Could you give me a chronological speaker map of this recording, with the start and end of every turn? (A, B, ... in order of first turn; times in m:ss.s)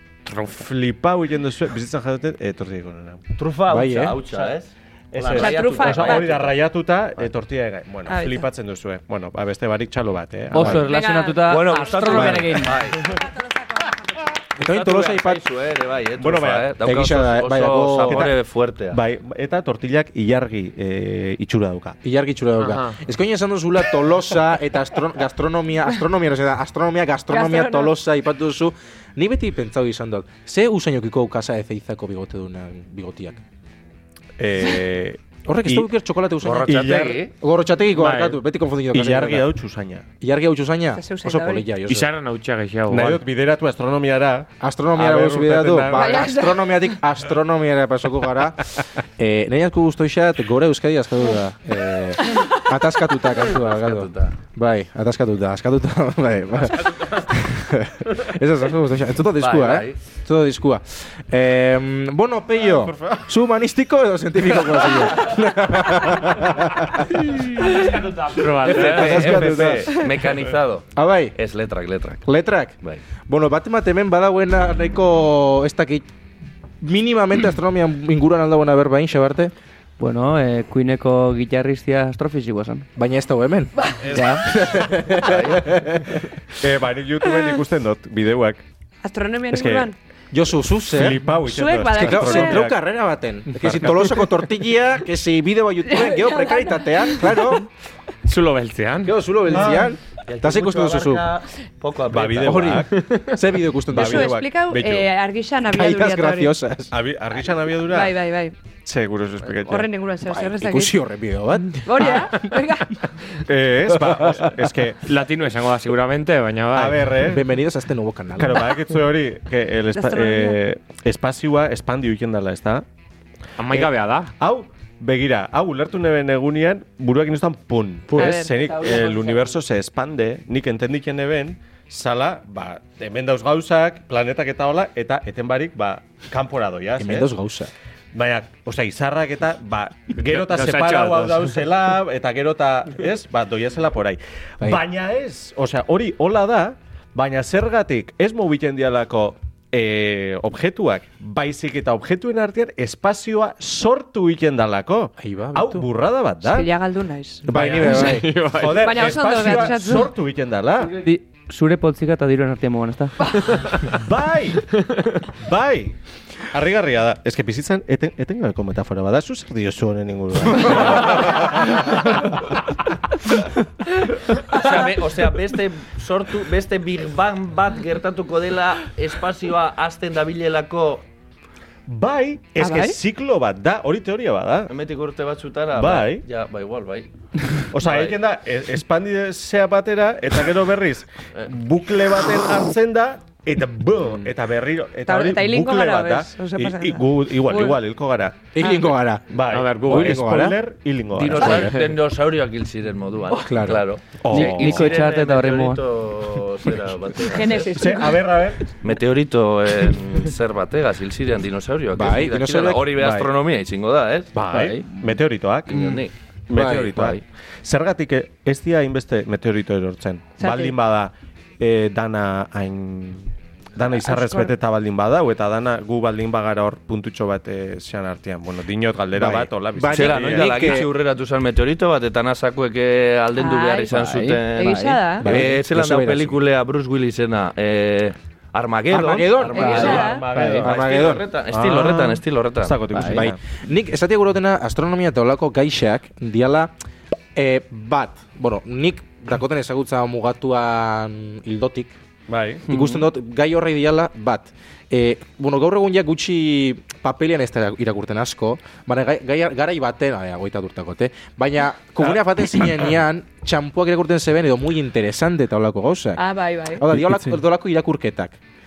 0:00.3-0:03.2 A
0:03.4-0:06.6 B
0:03.7-0:04.2 C
0:05.1-0:10.9 A
0:05.3-0:06.3 D
0:08.1-0:08.5 D
0:10.5-0:12.8 E
0:10.6-0:10.8 C
0:10.7-0:12.3 D
0:11.5-0:13.2 B
0:12.1-0:12.5 A
0:12.9-0:14.3 D
0:14.6-0:15.4 C
0:14.6-0:19.0 B
0:16.2-0:16.8 A
0:16.8-0:18.3 C
0:18.0-0:18.4 A
0:18.9-0:22.0 A
0:22.0-0:33.4 C
0:22.6-0:23.0 F
0:27.3-0:27.9 D
0:34.4-0:35.9 A
0:35.5-0:39.5 C
0:36.4-0:37.3 B
0:36.6-0:37.1 A
0:38.0-0:38.4 F
0:38.9-0:40.1 A
0:40.2-0:42.1 C
0:40.9-0:41.6 D
0:41.9-0:43.2 F
0:42.9-0:46.2 A
0:44.6-1:07.2 C
0:45.9-0:46.7 D
0:53.5-0:54.4 B
0:59.4-1:00.0 B
1:02.7-1:03.3 A
1:07.4-1:09.3 F
1:08.5-1:12.2 B
1:08.7-1:10.0 C
1:08.9-1:10.0 A
1:11.0-1:11.3 C
1:12.2-1:12.8 C
1:13.3-1:16.1 C
1:16.8-1:19.5 C
1:20.0-1:22.9 E
1:23.0-1:23.8 C
1:24.0-1:25.7 A
1:24.1-1:24.5 E
1:24.4-1:26.3 C
1:25.3-1:25.5 B
1:26.6-1:28.6 A
1:29.0-1:30.0 D
1:29.5-1:29.9 A
1:30.3-1:31.2 C
1:30.9-1:32.8 A
1:31.5-1:32.7 D
1:31.9-1:37.7 C
1:33.6-1:34.2 A
1:35.9-1:37.5 D
1:38.2-1:39.2 F
1:39.0-1:41.2 C
1:39.5-1:39.9 A
1:40.3-1:42.8 B
1:42.1-1:42.9 A
1:42.4-1:44.4 C
1:43.0-1:43.3 F
1:43.9-1:45.1 A
1:43.9-1:46.6 D
1:45.7-1:46.9 C
1:46.9-1:48.2 A
1:47.8-1:48.6 D
1:48.8-1:49.9 A
1:49.6-1:51.0 D
1:50.2-1:52.3 C
1:51.8-1:53.1 D
1:53.5-1:55.0 A
1:53.9-1:54.7 C
1:55.0-1:57.2 F
1:56.7-1:57.4 A
1:57.2-1:58.7 C
1:58.4-2:02.8 A
1:59.9-2:00.6 D
2:03.6-2:04.3 F
2:03.7-2:17.3 A
2:08.1-2:08.6 D
2:08.7-2:09.3 E
2:17.0-2:17.7 C
2:18.1-2:36.7 A
2:20.2-2:21.6 F
2:35.2-2:35.9 C
2:36.4-2:38.1 D
2:37.5-2:38.4 C
2:37.5-2:39.1 F
2:37.7-2:41.0 A
2:38.7-2:40.1 D
2:40.8-2:43.2 E
2:43.8-2:44.7 A
2:44.8-2:45.1 F
2:45.4-2:46.0 A
2:46.5-2:52.6 A
2:54.5-3:01.0 B
3:01.9-3:04.7 A
3:02.6-3:03.0 D
3:04.7-3:07.1 B
3:05.7-3:06.2 A
3:07.7-3:18.6 A
3:07.7-3:08.2 B
3:15.1-3:17.8 D
3:18.5-3:20.6 C
3:18.6-3:18.9 D
3:19.3-3:21.8 A
3:19.5-3:20.2 F
3:21.1-3:27.8 B
3:21.4-3:21.7 C
3:23.3-3:23.8 C
3:24.2-3:25.0 A
3:24.3-3:25.8 E
3:27.2-3:28.2 D
3:27.7-3:28.7 A
3:28.8-3:34.3 B
3:31.9-3:32.9 C
3:33.0-3:33.3 A
3:34.3-3:50.8 A
3:34.5-3:34.9 E
3:35.7-3:37.2 B
3:36.5-3:37.1 C
3:40.4-3:40.8 D
3:43.9-3:44.5 D
3:49.2-3:50.9 C
3:49.9-4:02.8 B
3:53.4-3:54.0 D
3:54.0-3:55.1 E
3:54.6-3:55.4 D
3:55.2-3:56.4 C
3:58.9-4:01.2 C
3:59.5-4:00.3 D
3:59.6-4:00.7 A
4:00.3-4:00.6 E
4:01.5-4:03.4 A
4:02.9-4:03.3 E
4:03.1-4:06.7 C
4:07.4-4:12.0 C
4:12.3-4:12.7 A
4:12.7-4:28.4 C
4:12.7-4:13.0 E
4:26.2-4:26.8 D
4:26.9-4:27.4 A